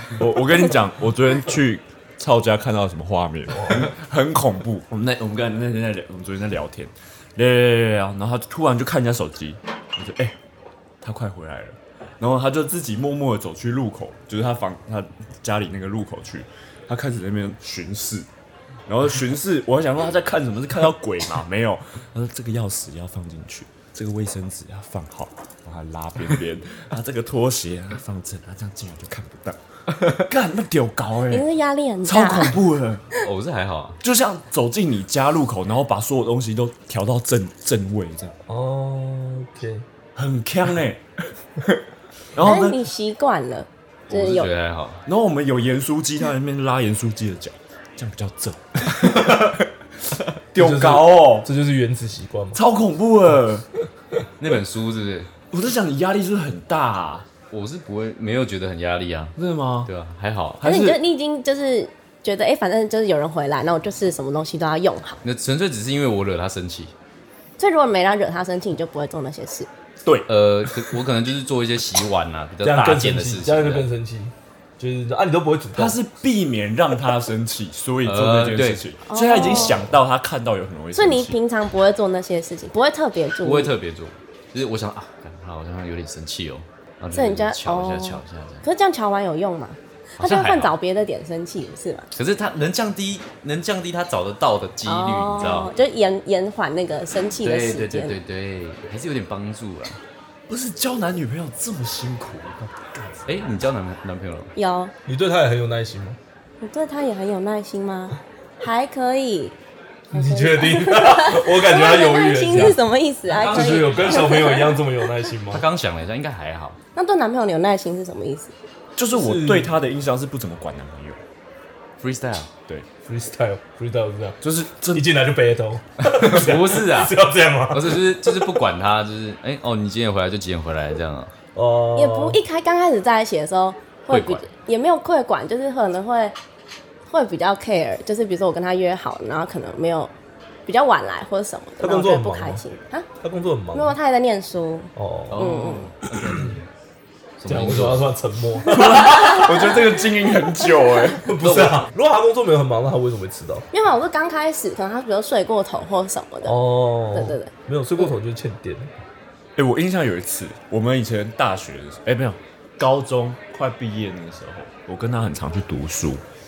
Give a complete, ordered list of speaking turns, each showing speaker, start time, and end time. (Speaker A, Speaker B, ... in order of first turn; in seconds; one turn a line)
Speaker A: 0.2-10.4
Speaker B: 3.5-3.9
Speaker A: 11.0-18.3
Speaker A: 18.9-31.5
Speaker C: 31.3-32.6
Speaker A: 32.0-33.0
Speaker D: 33.2-34.0
Speaker A: 34.0-38.3
Speaker B: 38.5-39.9
Speaker A: 40.2-41.0
Speaker A: 42.4-42.9
Speaker C: 42.4-44.5
Speaker D: 44.1-45.0
Speaker A: 45.1-51.5
Speaker B: 50.5-52.6
Speaker A: 52.5-53.6
Speaker D: 54.4-55.3
Speaker A: 55.5-57.3
Speaker D: 57.5-60.6
Speaker A: 59.4-59.9
Speaker A: 60.6-61.0
Speaker C: 60.6-65.2
Speaker D: 65.2-66.9
Speaker C: 67.6-69.7
Speaker A: 70.0-70.9
Speaker D: 70.3-73.9
Speaker B: 72.6-76.0
Speaker A: 75.7-81.4
Speaker D: 78.0-78.8
Speaker C: 79.1-79.8
Speaker C: 81.0-83.7
Speaker D: 83.4-88.6
Speaker C: 87.1-92.1
Speaker D: 90.2-90.7
Speaker D: 92.1-95.7
Speaker C: 94.8-98.2
Speaker D: 97.4-100.0
Speaker A: 100.5-103.5
Speaker D: 103.3-104.5
Speaker C: 104.5-104.9
Speaker B: 105.1-106.2
Speaker C: 106.6-109.5
Speaker B: 110.1-112.8
Speaker C: 110.1-114.8
Speaker D: 113.3-114.3
Speaker B: 113.3-115.6
Speaker D: 115.5-116.8
Speaker C: 117.0-118.5
Speaker A: 119.0-121.2
Speaker B: 119.1-119.7
Speaker D: 122.0-122.5
Speaker B: 123.1-124.4
Speaker A: 124.4-125.0
Speaker B: 124.9-128.5
Speaker D: 126.0-127.1
Speaker D: 127.7-131.3
Speaker B: 131.6-132.4
Speaker C: 131.9-136.3
Speaker D: 134.1-134.5
Speaker C: 137.1-140.1
Speaker C: 140.7-143.1
Speaker B: 141.8-142.6
Speaker B: 143.2-144.0
Speaker C: 143.7-145.9
Speaker B: 145.0-146.6
Speaker D: 145.3-146.7
Speaker D: 147.4-148.1
Speaker B: 147.5-149.5
Speaker A: 148.7-151.3
Speaker C: 149.1-149.5
Speaker B: 151.2-153.7
Speaker D: 151.4-151.8
Speaker C: 153.7-156.6
Speaker B: 156.4-158.9
Speaker C: 157.1-158.0
Speaker A: 159.6-166.2